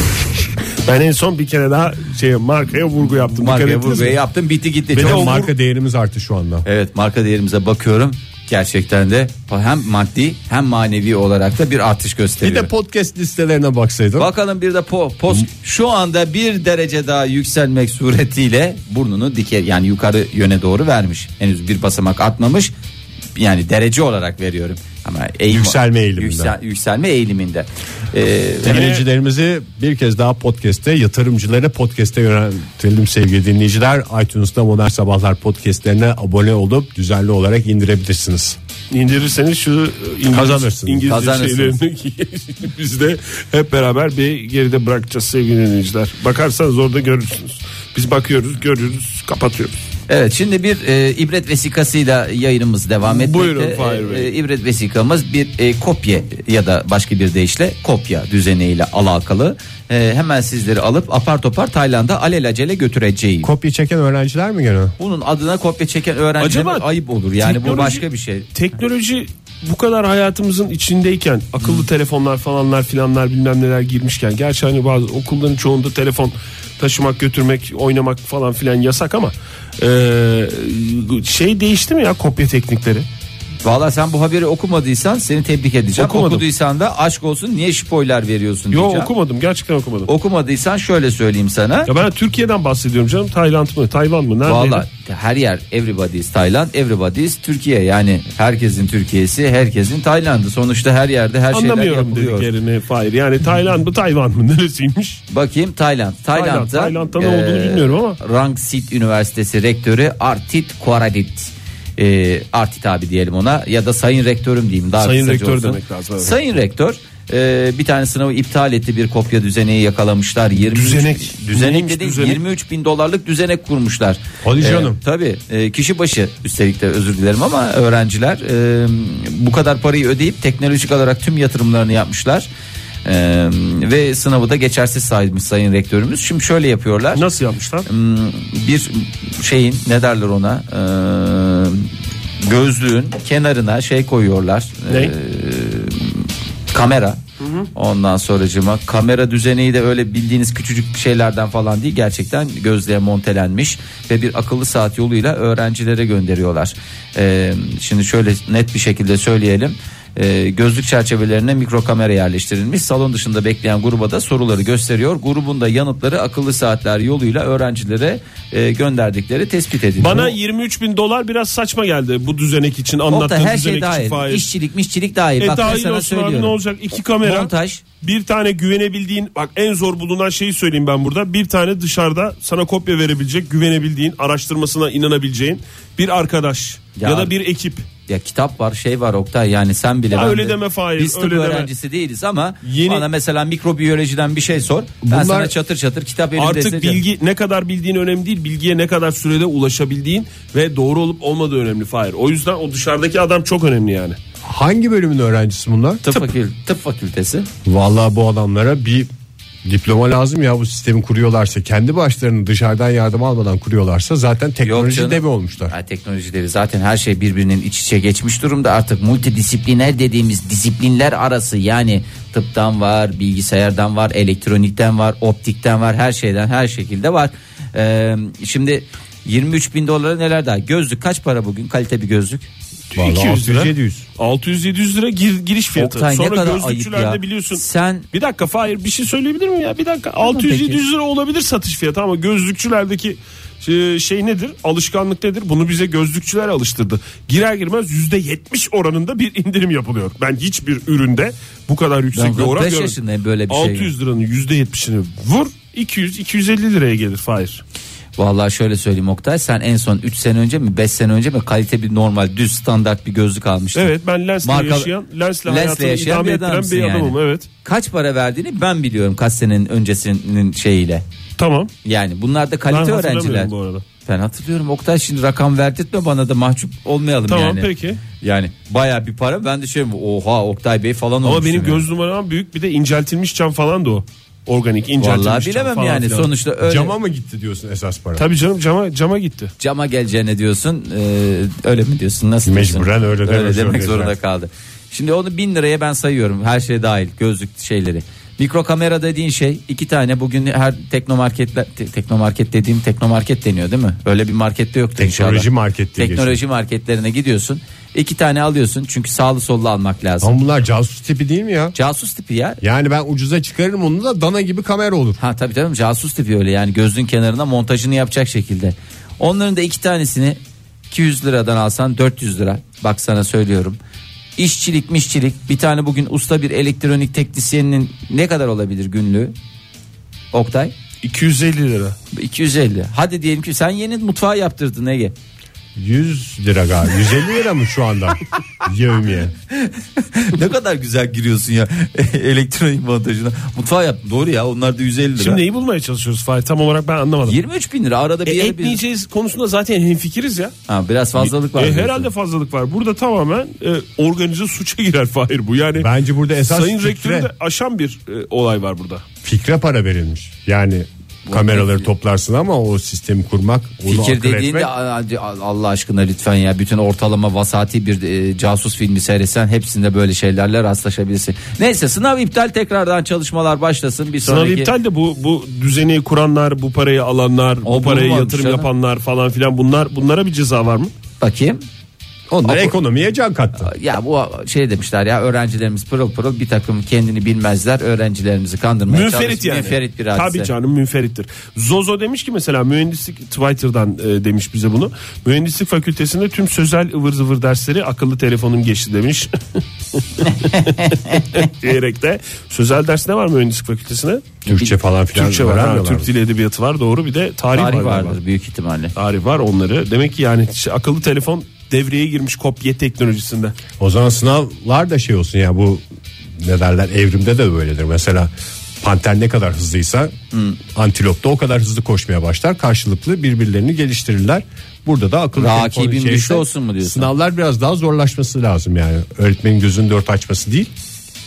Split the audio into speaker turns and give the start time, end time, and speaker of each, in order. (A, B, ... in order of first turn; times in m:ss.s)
0:00.8-0:04.2 A
0:03.4-0:05.4 B
0:04.9-0:05.5 A
0:04.9-0:06.6 C
0:06.6-0:12.7 B
0:12.4-0:14.3 C
0:14.2-0:22.7 B
0:23.4-0:28.9 B
0:25.5-0:26.5 C
0:28.6-0:38.6 C
0:28.6-0:29.0 A
0:38.9-0:49.8 A
0:40.3-0:41.1 C
0:41.0-0:41.8 B
0:50.1-1:03.5 B
0:53.0-0:54.3 A
1:03.4-1:04.9 C
1:05.0-1:08.5 B
1:06.4-1:06.8 A
1:07.4-1:23.0 A
1:23.6-1:29.1 B
1:26.0-1:26.4 A
1:28.7-1:30.1 A
1:30.1-1:31.9 B
1:31.9-1:34.8 A
1:34.4-1:42.5 B
1:41.5-1:45.2 A
1:45.3-2:12.5 B
1:46.3-1:48.2 A
1:55.0-1:56.3 A
2:00.6-2:02.4 A
2:04.4-2:05.0 C
2:13.0-2:17.2 B
2:17.1-2:17.9 A
2:17.8-2:21.9 B
2:22.4-2:27.2 B
2:27.4-2:27.7 A
2:27.7-2:50.3 B
2:50.0-2:54.5 A
2:53.1-2:56.5 B
2:55.4-3:07.8 A
2:57.2-2:57.8 B
3:07.0-3:07.3 B
3:08.1-3:17.0 B
3:10.1-3:11.7 A
3:12.6-3:13.1 A
3:15.0-3:15.5 C
3:16.4-3:24.2 A
3:24.4-3:26.0 C
3:26.0-3:27.5 B
3:27.6-3:29.1 C
3:29.6-3:35.7 C
3:34.6-3:52.5 B
3:52.9-4:13.0 A
3:52.9-3:54.0 C
3:55.8-3:58.0 B
4:00.2-4:00.8 B
4:12.1-4:13.9 B
4:13.5-4:17.6 A
4:18.2-4:23.9 B
4:23.7-4:27.5 A
4:24.4-4:24.9 B
4:25.4-4:31.0 B
4:31.4-4:31.7 A
4:31.8-4:33.5 B
4:32.7-4:33.8 A
4:34.0-4:41.8 B
4:37.3-4:38.0 A
4:41.2-4:46.3 A
4:45.0-4:46.9 B
4:46.6-4:48.2 C
4:48.2-4:49.5 A
4:49.6-5:10.3 B
4:52.4-4:54.2 C
5:05.0-5:06.4 C
5:10.2-5:11.7 C
5:11.7-5:12.6 B
5:12.6-5:15.2 C
5:15.2-5:20.4 B
5:20.9-5:23.8 B
5:24.4-5:29.3 B
5:30.3-5:30.7 B
5:31.0-5:32.0 A
5:32.1-5:35.1 B
5:35.8-5:39.3 C
5:39.5-5:45.4 B
5:45.2-5:47.4 A
5:47.2-5:48.8 B
5:48.2-5:50.5 A
5:50.7-5:52.1 B
5:51.2-5:55.9 A
5:55.8-5:57.3 C
5:56.5-5:59.0 A
5:59.2-6:04.7 C
6:03.8-6:14.7 B
6:14.2-6:20.9 A
6:17.6-6:18.7 B
6:21.2-6:21.6 B
6:22.3-6:23.7 C
6:23.6-6:30.5 B
6:28.9-6:44.5 A
6:40.2-6:41.5 B
6:44.4-6:46.1 C
6:45.1-6:48.2 A
6:47.5-6:48.9 B
6:49.0-6:53.5 A
6:53.8-6:55.8 C
6:56.4-7:00.1 C
7:00.3-7:00.6 B
7:00.7-7:10.7 C
7:05.4-7:07.1 B